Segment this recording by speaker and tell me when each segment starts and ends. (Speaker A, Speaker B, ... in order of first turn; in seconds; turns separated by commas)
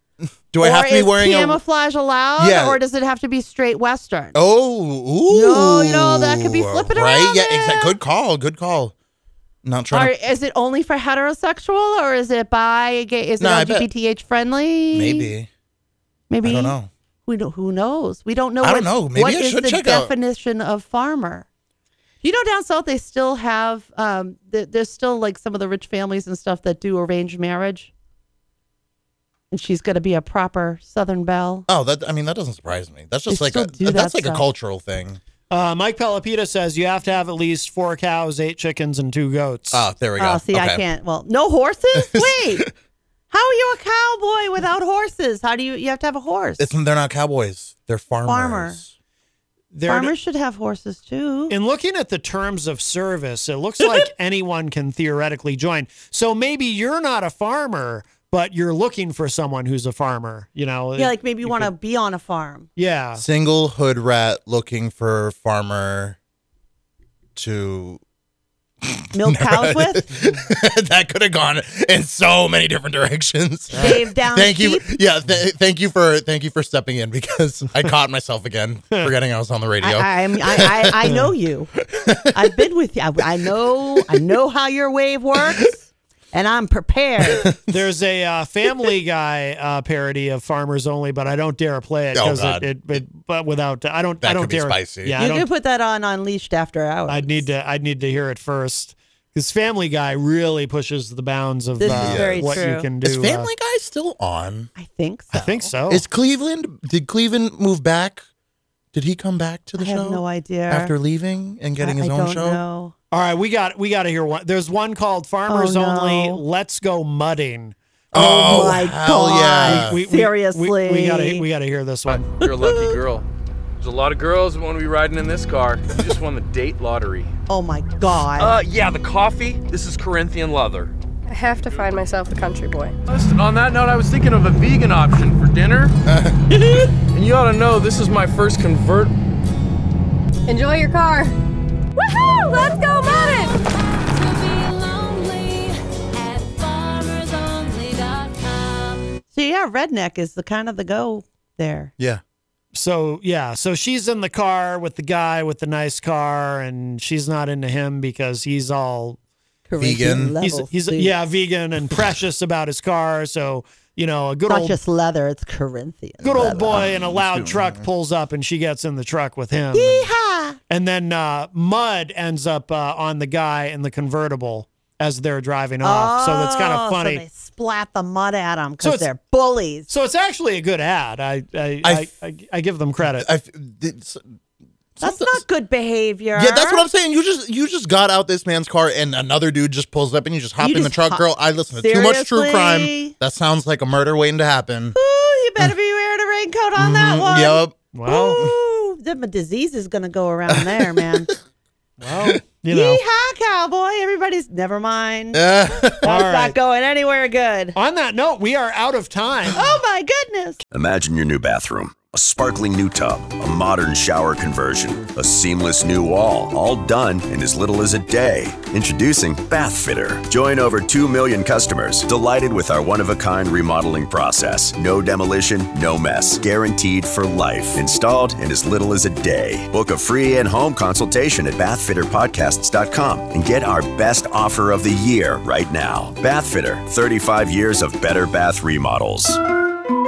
Speaker A: 0.5-1.6, Speaker B: 0.6-4.4, Speaker A: 2.4-2.8, Speaker A: 4.3-8.9, Speaker B: 5.3-8.0, Speaker A: 9.6-10.1, Speaker B: 9.9-15.3, Speaker A: 13.4-13.9, Speaker A: 14.9-15.5, Speaker B: 16.3-21.5, Speaker A: 16.4-16.9, Speaker A: 18.6-20.1, Speaker B: 22.2-27.9, Speaker B: 29.5-31.7, Speaker A: 31.7-35.2, Speaker B: 33.3-34.5, Speaker C: 35.5-39.9, Speaker A: 39.7-40.8, Speaker B: 40.2-42.7, Speaker A: 42.0-42.6, Speaker B: 43.3-46.7, Speaker A: 46.6-48.9, Speaker B: 48.2-48.8, Speaker C: 49.7-50.1, Speaker B: 49.9-51.5, Speaker C: 51.5-61.7, Speaker B: 61.0-62.7, Speaker C: 62.8-63.2, Speaker A: 63.2-66.2, Speaker A: 67.4-68.0, Speaker A: 68.9-81.0, Speaker B: 69.1-70.0, Speaker C: 73.7-74.0, Speaker B: 73.7-74.9, Speaker B: 79.8-81.8, Speaker B: 82.3-85.8, Speaker B: 86.3-87.5, Speaker C: 87.5-95.5, Speaker A: 92.1-93.0, Speaker A: 94.2-95.2, Speaker B: 95.2-97.5, Speaker C: 97.1-103.5, Speaker B: 101.8-102.9, Speaker A: 101.9-104.7, Speaker B: 104.8-105.7, Speaker C: 105.3-106.0, Speaker A: 105.9-108.2, Speaker A: 108.9-112.6, Speaker B: 109.8-111.0, Speaker B: 111.8-113.0, Speaker C: 113.1-117.8, Speaker B: 115.5-116.4, Speaker A: 118.1-120.0, Speaker B: 118.1-121.5, Speaker C: 119.6-122.3, Speaker D: 122.1-123.2, Speaker B: 122.4-123.0, Speaker D: 123.8-127.3, Speaker B: 127.5-128.6, Speaker D: 128.4-130.9, Speaker E: 131.3-132.9, Speaker D: 133.1-135.9, Speaker D: 137.1-139.1, Speaker E: 140.5-141.3, Speaker E: 142.1-143.6, Speaker E: 144.2-145.7, Speaker E: 146.2-149.0, Speaker B: 149.3-151.9, Speaker C: 152.7-159.2, Speaker B: 159.7-161.2, Speaker A: 159.8-160.4, Speaker C: 160.4-164.8, Speaker B: 164.5-166.9, Speaker C: 166.2-170.1, Speaker A: 166.8-167.9, Speaker B: 169.7-170.6, Speaker C: 170.7-177.2, Speaker B: 175.8-179.9, Speaker C: 178.8-179.1, Speaker C: 179.8-183.3, Speaker A: 181.8-182.1, Speaker A: 183.0-184.2, Speaker A: 185.0-185.4, Speaker B: 185.0-186.9, Speaker A: 186.3-195.0, Speaker B: 190.6-193.1, Speaker B: 194.9-201.3, Speaker A: 196.8-197.8, Speaker C: 197.9-198.4, Speaker A: 200.5-201.1, Speaker C: 202.0-203.0, Speaker B: 202.7-205.4, Speaker A: 205.3-206.1, Speaker B: 206.0-207.8, Speaker C: 206.0-206.6, Speaker C: 207.7-209.6, Speaker B: 209.6-210.6, Speaker F: 210.7-239.4